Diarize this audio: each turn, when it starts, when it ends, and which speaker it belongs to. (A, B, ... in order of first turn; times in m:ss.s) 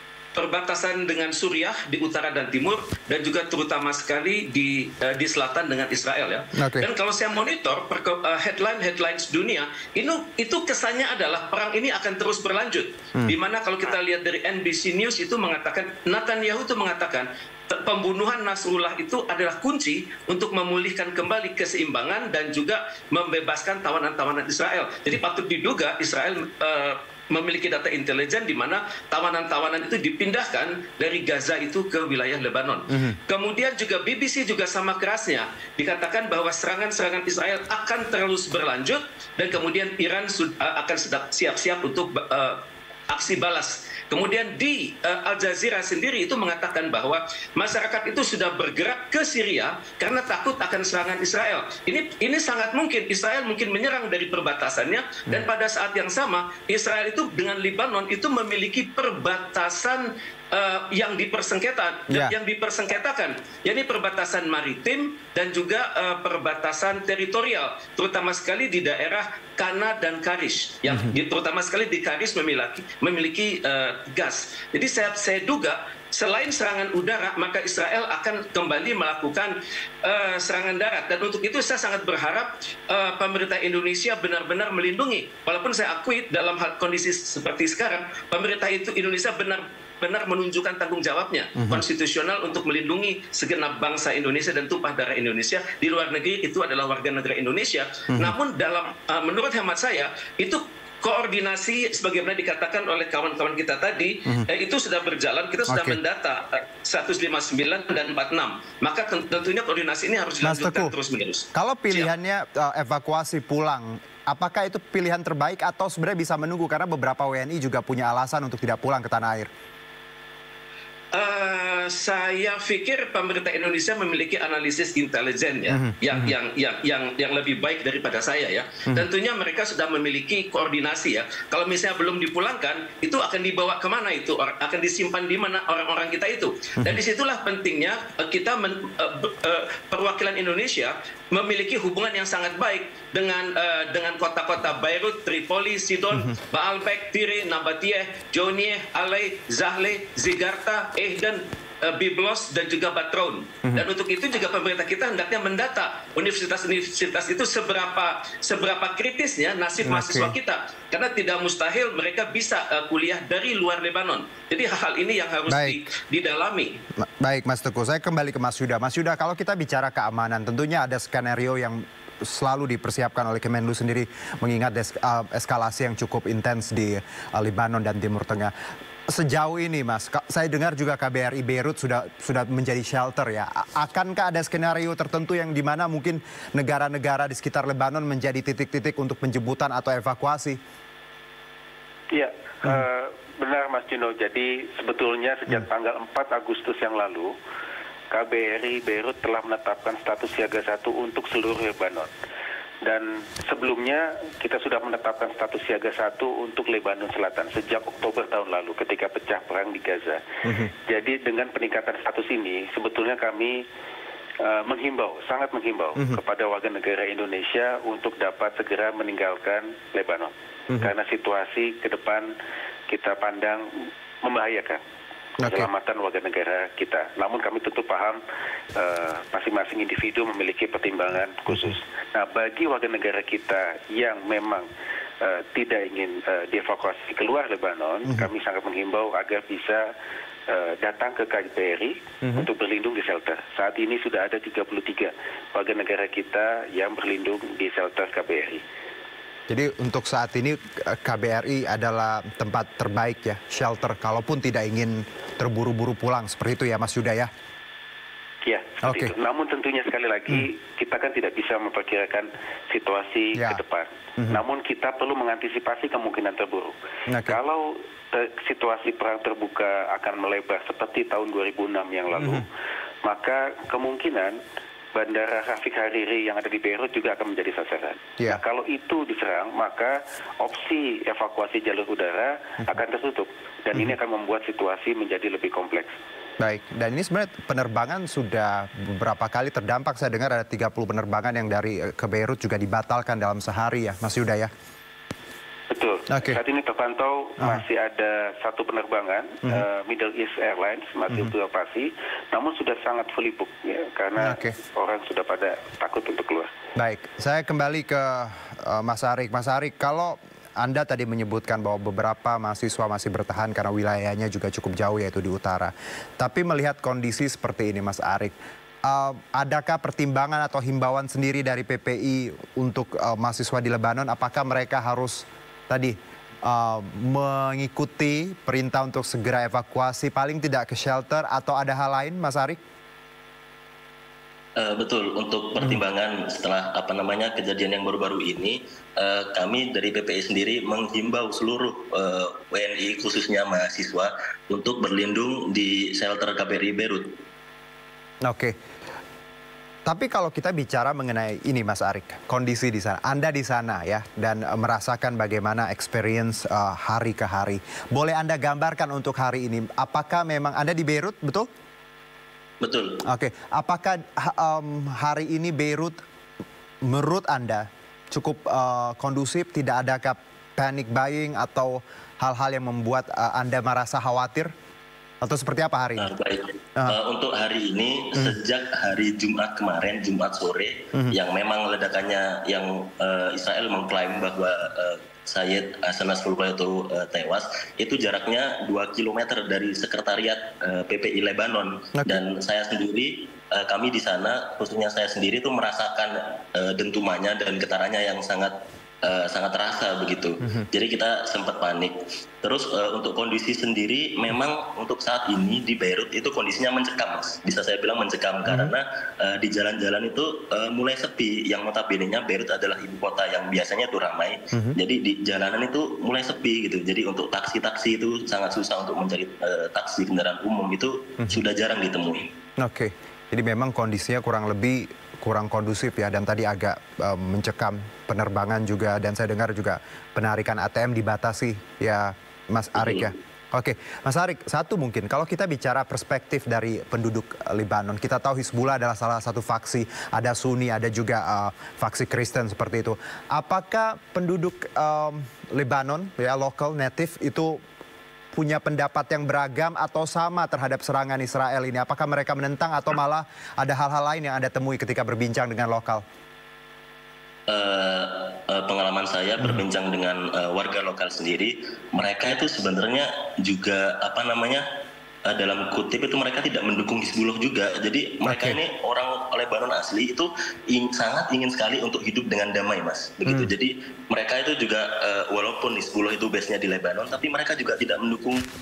0:00.4-1:52.1 A
0:06.6-0:06.9 B
0:32.9-0:33.2 B
1:10.9-1:11.1 B
1:45.7-1:46.0 B
1:50.4-1:50.9 B
1:51.5-1:59.5 B
2:01.1-2:46.8 A
2:05.7-2:06.3 B
2:39.8-2:40.4 B
2:45.5-2:45.8 B
2:47.2-2:58.5 B
2:59.1-3:10.6 B
3:12.1-3:17.3 C
3:18.1-3:22.1 C
3:22.8-3:30.2 C
3:30.4-3:30.7 B
3:30.9-3:33.6 C
3:34.4-3:42.3 C
3:42.9-3:43.7 C
3:44.2-3:44.8 C
3:45.4-3:45.7 B
3:45.4-3:48.2 C
3:48.8-3:54.7 C
3:51.5-3:51.8 B
3:55.2-3:59.8 C
4:00.5-4:08.6 C
4:09.5-4:17.3 B
4:18.5-4:26.8 C
4:18.8-4:19.1 B
4:23.4-4:23.6 B
4:27.1-4:27.4 B
4:27.3-4:32.4 C
4:32.2-4:32.4 B
4:33.0-4:34.4 C
4:35.0-4:45.9 C
4:46.4-4:54.5 B
4:55.7-5:06.5 C
4:56.1-4:56.4 B
5:04.2-5:04.6 B
5:06.8-5:18.3 B
5:18.9-5:32.6 B
5:34.6-5:47.1 D
5:48.2-5:48.6 B
5:49.9-6:01.5 B
6:02.6-6:03.0 D
6:03.0-6:06.0 B
6:06.8-6:14.5 B
6:15.2-6:16.1 B
6:16.0-7:02.3 D
6:31.9-6:32.2 B
6:40.4-6:40.7 B
7:02.6-7:27.6 B
7:12.8-7:13.1 D
7:28.3-7:36.0 B
7:37.5-7:44.6 D
7:45.3-7:58.4 D
7:48.3-7:48.6 B